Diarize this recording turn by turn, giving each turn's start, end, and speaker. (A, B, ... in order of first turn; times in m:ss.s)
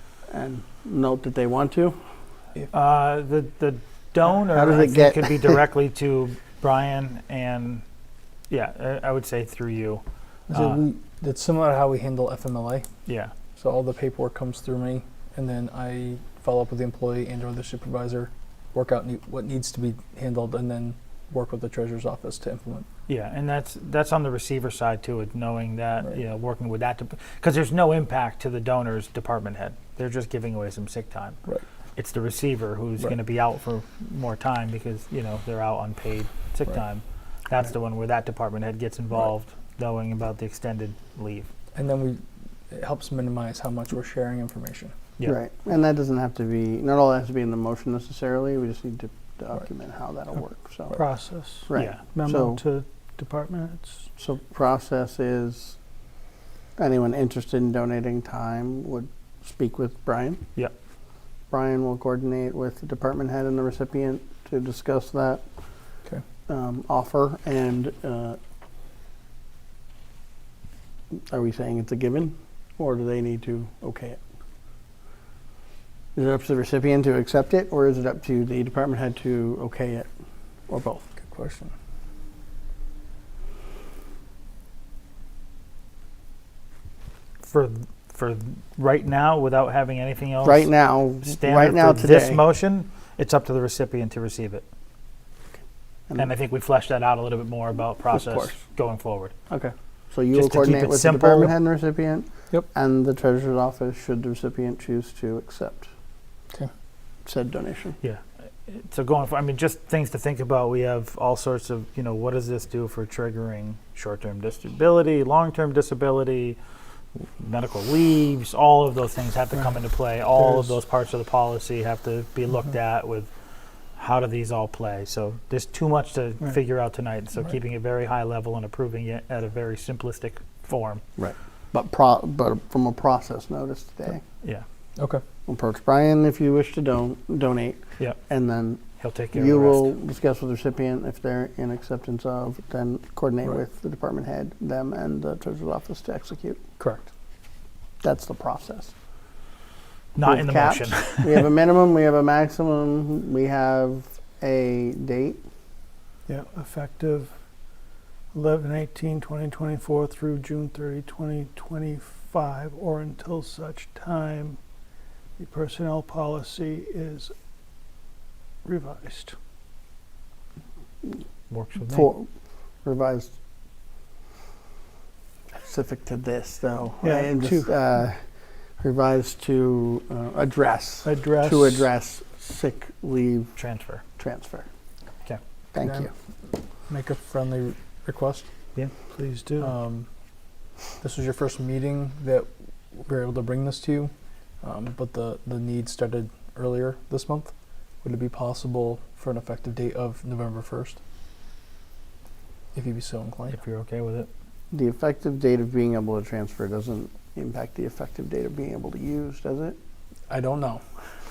0:00.3-0:02.0 A
0:02.7-0:07.8 B
0:04.5-0:05.6 A
0:08.5-0:10.8 B
0:10.5-0:12.9 C
0:13.1-0:13.3 B
0:13.6-0:22.9 C
0:23.1-0:31.4 B
0:32.0-0:41.5 B
0:41.8-0:45.0 C
0:45.2-0:51.0 A
0:50.9-0:54.1 D
0:51.7-0:52.6 A
0:54.2-0:55.8 A
0:56.8-1:00.5 A
1:01.5-1:05.4 A
1:06.5-1:08.4 A
1:11.1-1:14.2 A
1:16.2-1:20.1 A
1:20.7-1:21.0 A
1:21.2-1:21.7 C
1:27.4-1:30.7 B
1:30.4-1:32.4 A
1:31.2-1:34.6 B
1:36.2-1:39.3 B
1:38.1-1:38.6 A
1:39.5-1:45.9 A
1:40.3-1:41.5 B
1:47.3-1:48.0 A
1:48.0-1:56.6 B
1:57.2-2:03.3 B
2:04.0-2:11.0 B
2:11.2-2:14.2 A
2:15.5-2:18.8 A
2:19.0-2:19.9 B
2:19.3-2:26.6 A
2:26.8-2:27.1 B
2:28.0-2:28.9 A
2:30.2-2:31.5 B
2:30.2-2:35.4 A
2:36.3-2:37.3 D
2:38.3-2:44.6 D
2:45.4-2:47.3 D
2:48.6-2:49.4 D
2:51.5-2:52.1 B
2:51.9-2:52.3 A
2:52.8-2:53.3 A
2:55.6-2:58.2 A
2:57.0-2:57.7 D
2:58.8-3:03.6 A
3:01.0-3:01.9 D
3:03.6-3:04.0 B
3:04.2-3:04.7 A
3:05.7-3:06.1 A
3:05.8-3:06.1 C
3:06.9-3:08.5 C
3:09.1-3:09.7 D
3:09.6-3:10.1 C
3:11.0-3:17.5 C
3:18.0-3:21.0 C
3:22.8-3:23.6 C
3:23.5-3:24.3 B
3:24.7-3:29.8 A
3:30.3-3:30.8 C